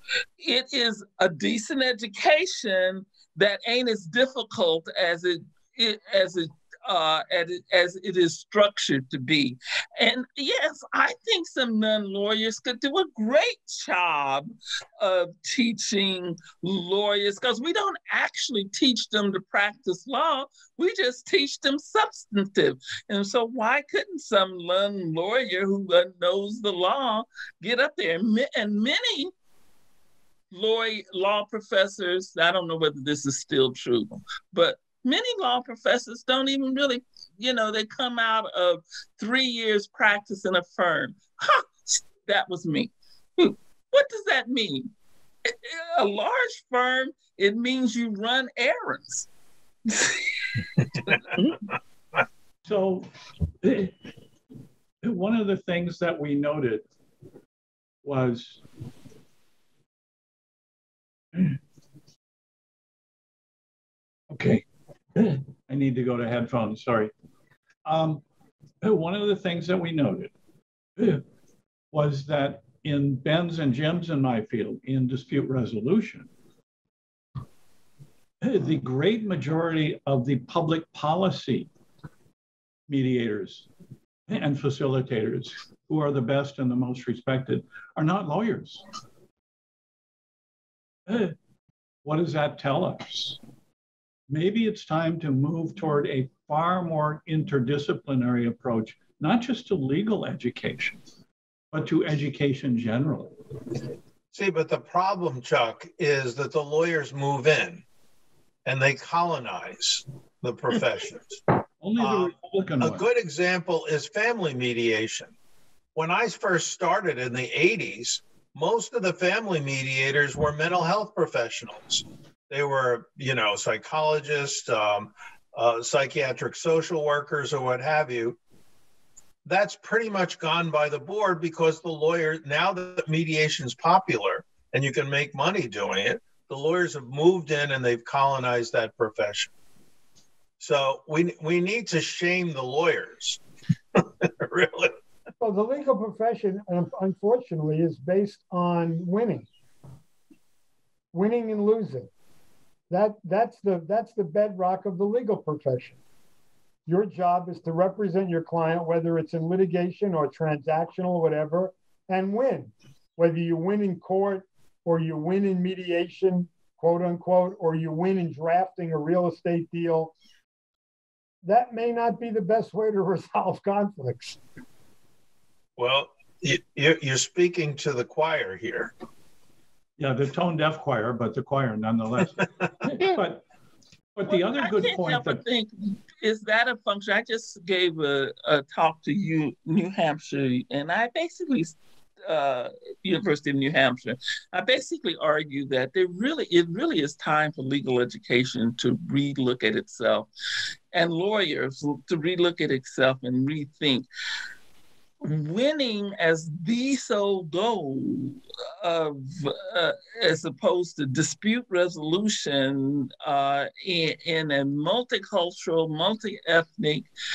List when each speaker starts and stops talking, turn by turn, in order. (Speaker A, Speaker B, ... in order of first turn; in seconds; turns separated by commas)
Speaker A: 0.4-29.3, Speaker A: 30.5-44.9, Speaker A: 45.5-49.3, Speaker A: 49.9-50.3, Speaker B: 52.6-53.1, Speaker B: 53.6-53.9, Speaker B: 55.0-56.8, Speaker B: 58.0-58.6, Speaker B: 64.3-67.1, Speaker B: 67.8-68.2, Speaker B: 68.8-70.3, Speaker B: 71.0-71.2, Speaker B: 71.9-76.3, Speaker B: 78.4-81.7, Speaker B: 82.9-83.7, Speaker B: 84.3-88.8, Speaker B: 91.1-91.3, Speaker B: 92.0-93.4, Speaker B: 94.3-101.0, Speaker B: 101.7-103.3, Speaker C: 104.3-107.8, Speaker C: 108.6-111.4, Speaker B: 111.8-113.0, Speaker C: 112.0-115.3, Speaker C: 115.9-128.4, Speaker C: 129.4-139.5, Speaker C: 140.6-143.4, Speaker C: 144.0-144.9, Speaker D: 145.4-149.5, Speaker D: 151.1-152.1, Speaker D: 152.9-156.0, Speaker D: 156.8-170.1, Speaker D: 171.4-174.4, Speaker C: 175.8-178.9, Speaker B: 180.0-183.4, Speaker B: 184.2-185.4, Speaker A: 184.3-200.3, Speaker A: 200.9-204.1, Speaker A: 205.2-217.1